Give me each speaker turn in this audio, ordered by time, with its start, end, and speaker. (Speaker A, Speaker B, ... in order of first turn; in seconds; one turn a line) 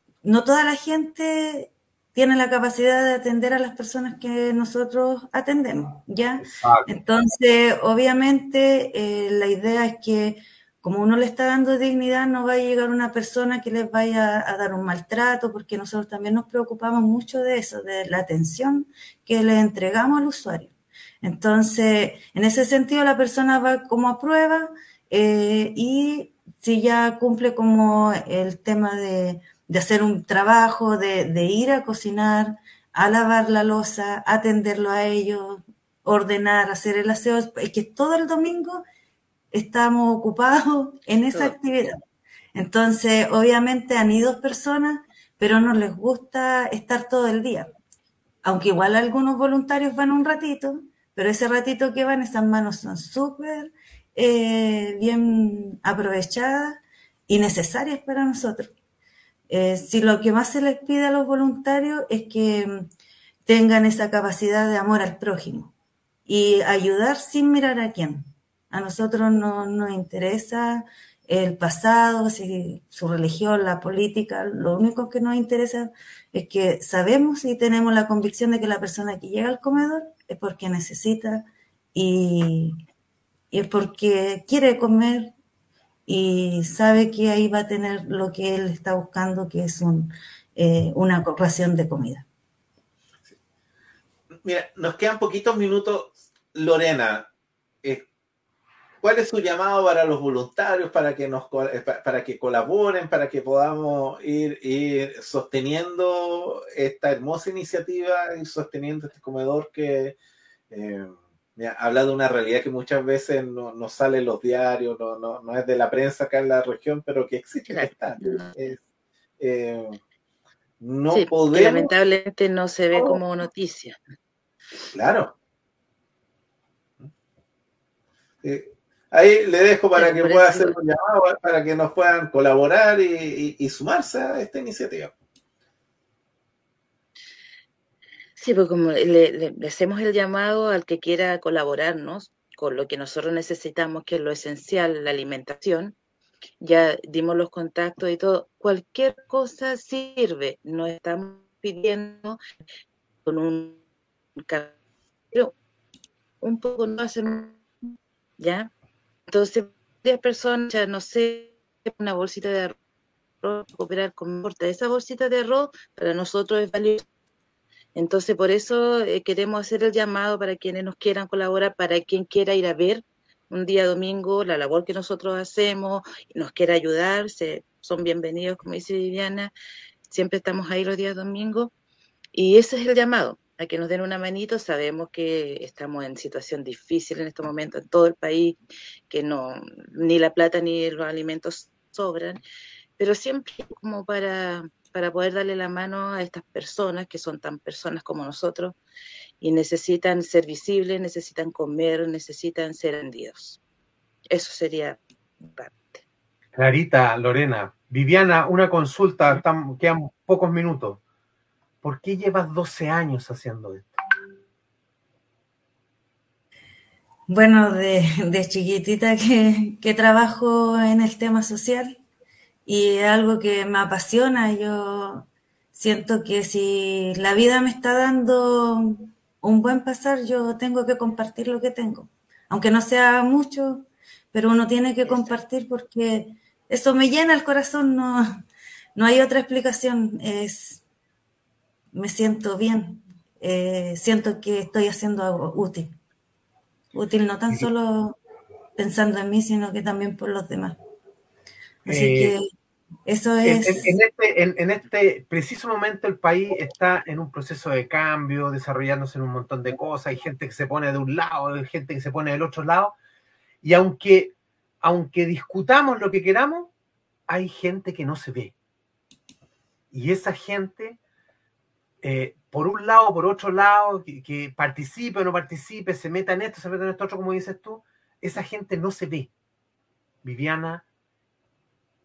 Speaker A: 0.2-38.8
Speaker B: 6.4-6.9
Speaker A: 39.5-42.0
Speaker A: 42.5-47.7
Speaker A: 48.4-58.7
Speaker A: 59.5-62.8
Speaker A: 63.5-65.7
Speaker A: 66.3-82.8
Speaker A: 83.5-85.3
Speaker A: 86.1-92.2
Speaker C: 94.4-97.3
Speaker C: 99.0-110.2
Speaker C: 110.7-118.8
Speaker D: 117.7-118.5
Speaker C: 119.4-120.0
Speaker C: 120.8-121.9
Speaker D: 121.1-124.0
Speaker C: 122.9-123.2
Speaker C: 124.9-125.3
Speaker C: 128.4-135.1
Speaker D: 129.9-130.8
Speaker D: 138.4-145.9
Speaker D: 146.6-152.4
Speaker D: 153.2-153.8
Speaker D: 154.4-154.7
Speaker D: 156.4-157.6
Speaker D: 158.4-158.7
Speaker D: 159.3-162.7
Speaker D: 163.4-167.0
Speaker D: 167.9-179.5
Speaker D: 180.1-181.7
Speaker D: 182.3-188.6
Speaker D: 189.1-192.4
Speaker D: 193.0-198.8
Speaker D: 199.4-203.6
Speaker D: 204.3-206.0
Speaker B: 206.5-211.0
Speaker B: 211.8-214.0
Speaker A: 217.3-221.9
Speaker A: 222.7-238.4
Speaker D: 235.1-235.4
Speaker A: 238.9-240.8
Speaker A: 241.9-245.9
Speaker A: 246.9-248.2
Speaker A: 248.8-250.8
Speaker A: 251.8-252.5
Speaker B: 251.8-252.3
Speaker A: 253.1-253.9
Speaker B: 253.4-262.9
Speaker B: 263.6-266.7
Speaker B: 267.3-268.5
Speaker B: 269.9-271.0
Speaker B: 272.0-279.3
Speaker B: 280.2-280.8